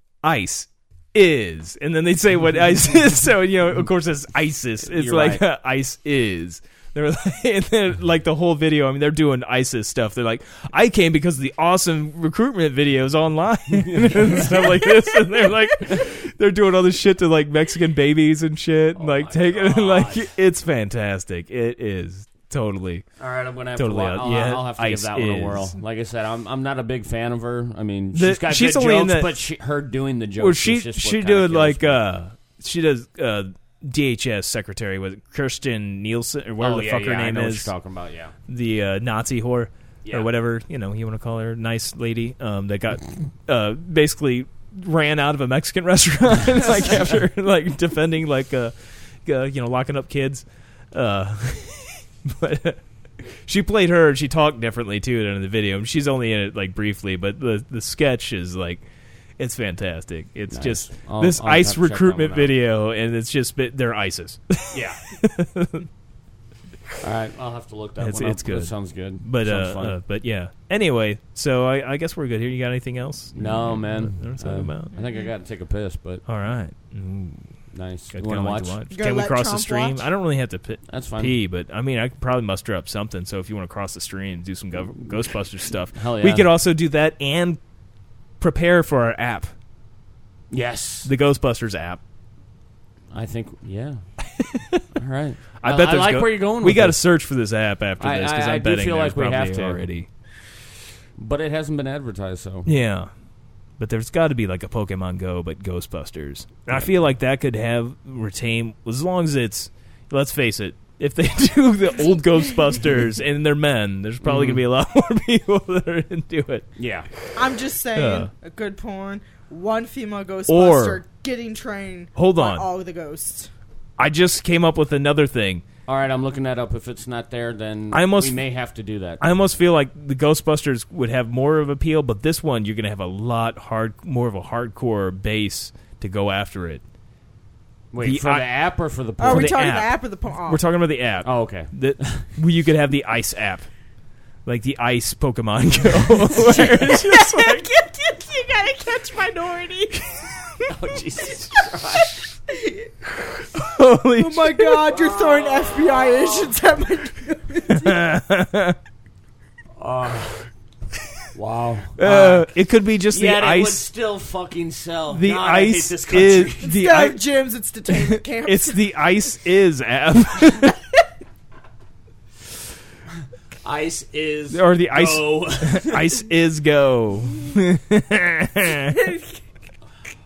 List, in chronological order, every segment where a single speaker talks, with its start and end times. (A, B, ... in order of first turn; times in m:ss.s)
0:00.2-0:23.1 A
0:04.8-0:05.4 B
0:13.7-0:15.0 B
0:18.9-0:20.3 B
0:23.2-0:32.0 B
0:23.8-0:25.7 A
0:28.1-0:29.3 A
0:30.4-0:37.7 A
0:36.6-0:38.3 B
0:38.5-0:58.8 A
0:59.4-1:05.9 A
1:00.5-1:02.5 B
1:04.7-1:05.0 B
1:07.0-1:10.0 B
1:08.0-1:14.9 A
1:13.4-1:16.2 B
1:16.3-1:17.5 A
1:17.7-1:18.8 B
1:18.1-1:27.6 A
1:18.9-1:20.1 C
1:20.9-1:21.4 B
1:25.9-1:26.5 B
1:28.4-1:29.5 A
1:30.5-1:31.1 B
1:31.0-1:32.0 A
1:33.1-1:34.1 B
1:34.4-1:34.8 A
1:35.0-1:37.0 B
1:35.6-1:40.1 A
1:38.0-1:39.8 B
1:41.2-1:42.7 B
1:42.6-1:43.1 A
1:43.8-1:56.7 A
1:54.2-1:54.6 B
1:56.8-1:57.1 B
1:57.4-2:03.5 C
1:57.9-1:58.3 A
2:00.5-2:01.0 A
2:02.1-2:02.6 A
2:04.0-2:05.6 A
2:05.9-2:09.3 B
2:07.9-2:08.4 A
2:09.2-2:16.8 A
2:17.9-2:19.6 B
2:18.0-2:18.5 A
2:19.2-2:20.6 C
2:19.2-2:23.7 A
2:21.2-2:22.3 B
2:24.4-2:27.6 A
2:26.4-2:30.3 C
2:30.7-2:32.2 B
2:32.5-2:32.9 C
2:33.5-2:34.8 A
2:34.2-2:38.1 C
2:34.9-2:36.5 B
2:37.7-2:38.8 A
2:39.8-2:40.5 B
2:41.3-2:42.5 B
2:42.0-2:43.8 A
2:43.1-2:46.7 B
2:45.1-2:47.2 A
2:46.6-2:49.0 C
2:47.9-2:50.7 A
2:53.6-2:56.2 B
2:54.5-2:59.0 A
2:58.9-2:59.4 C